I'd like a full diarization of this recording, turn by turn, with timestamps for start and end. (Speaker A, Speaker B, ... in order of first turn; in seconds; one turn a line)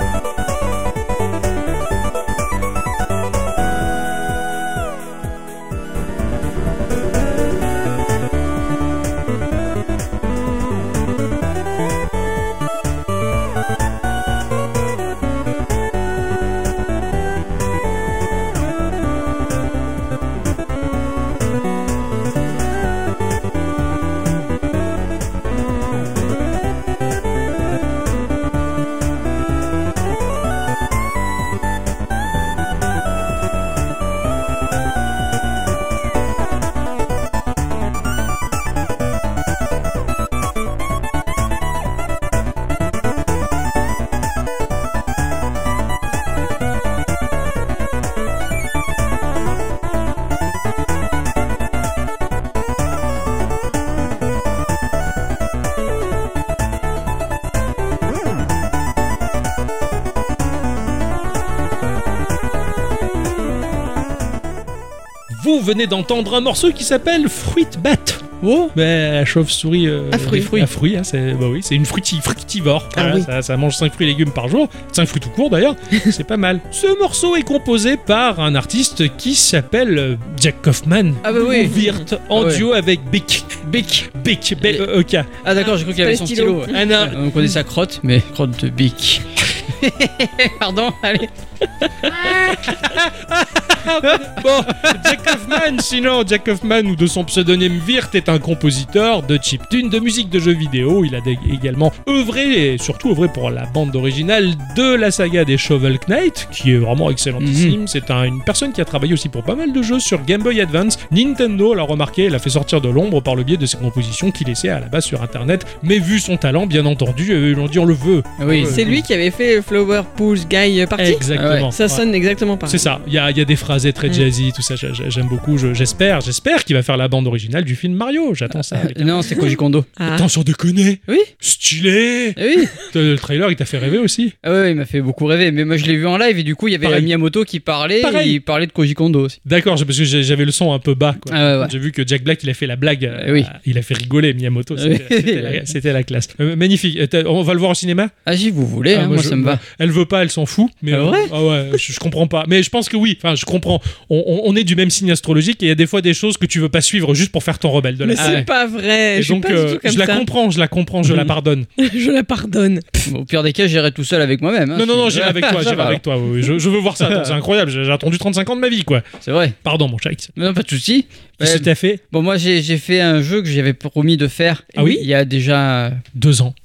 Speaker A: 65.3-83.6
Speaker B: 68.4-68.7
Speaker C: 70.1-70.7
Speaker B: 73.0-73.2
Speaker B: 81.2-82.7
Speaker C: 81.3-82.0
Speaker B: 83.6-84.9
Speaker A: 84.1-85.3
Speaker B: 85.4-91.3
Speaker C: 85.6-86.8
Speaker A: 86.7-87.2
Speaker B: 92.0-92.8
Speaker A: 92.1-119.0
Speaker B: 94.0-95.6
Speaker B: 107.4-107.8
Speaker B: 118.4-118.9
Speaker C: 118.7-122.9
Speaker A: 121.0-122.0
Speaker B: 121.3-121.7
Speaker A: 122.7-129.4
Speaker B: 128.7-129.9
Speaker C: 130.0-130.3
Speaker A: 130.1-134.3
Speaker B: 132.4-132.7
Speaker B: 134.4-139.4
Speaker A: 136.8-137.1
Speaker A: 138.0-138.4
Speaker A: 139.5-148.1
Speaker B: 141.3-141.7
Speaker B: 143.1-143.5
Speaker B: 144.8-145.7
Speaker B: 148.3-149.6
Speaker A: 148.9-158.5
Speaker B: 150.9-151.3
Speaker C: 158.0-160.3
Speaker B: 158.2-158.5
Speaker A: 159.2-161.7
Speaker B: 161.1-161.3
Speaker C: 161.8-163.1
Speaker B: 163.1-166.0
Speaker A: 164.8-169.0
Speaker B: 167.0-167.4
Speaker B: 169.2-169.6
Speaker A: 169.6-170.3
Speaker B: 170.4-176.1
Speaker A: 171.4-172.0
Speaker A: 174.8-175.1
Speaker A: 176.2-176.5